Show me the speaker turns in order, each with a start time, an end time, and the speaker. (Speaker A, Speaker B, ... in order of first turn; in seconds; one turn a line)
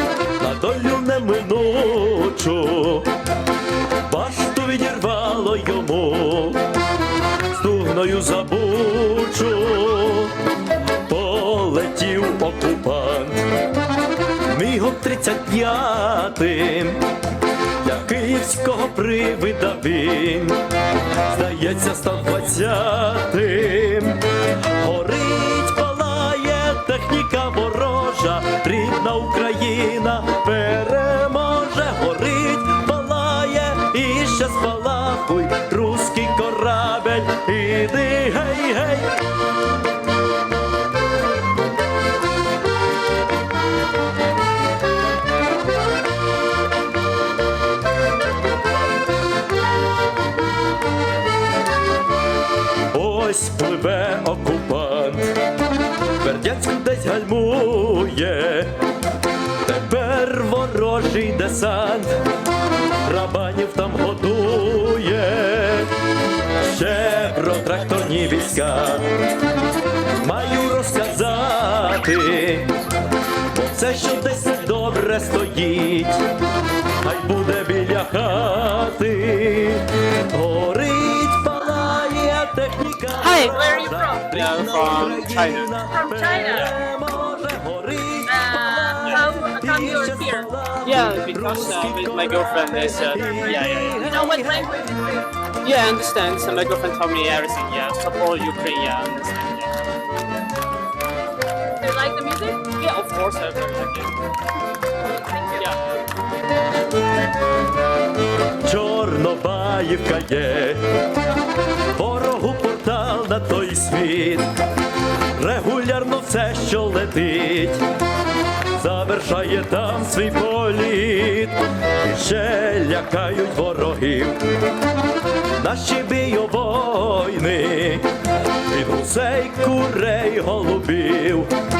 Speaker A: 0.4-3.2
Speaker A: 4.1-6.7
Speaker A: 7.5-10.4
Speaker A: 11.0-13.5
Speaker A: 14.5-17.1
Speaker A: 17.8-20.6
Speaker A: 21.2-39.2
Speaker A: 52.9-55.4
Speaker A: 56.2-58.8
Speaker A: 59.6-62.2
Speaker A: 62.9-65.9
Speaker A: 66.6-69.2
Speaker A: 70.2-72.8
Speaker A: 73.5-76.3
Speaker A: 77.0-94.9
Speaker B: 83.2-83.6
Speaker C: 83.4-84.2
Speaker B: 84.3-85.8
Speaker C: 85.9-86.7
Speaker C: 88.3-90.5
Speaker B: 90.8-94.1
Speaker C: 93.2-94.9
Speaker B: 95.6-99.8
Speaker C: 101.8-102.7
Speaker B: 102.6-104.2
Speaker C: 105.2-105.7
Speaker A: 108.6-111.0
Speaker A: 111.9-114.5
Speaker A: 115.3-117.9
Speaker A: 118.7-124.5
Speaker A: 125.6-131.5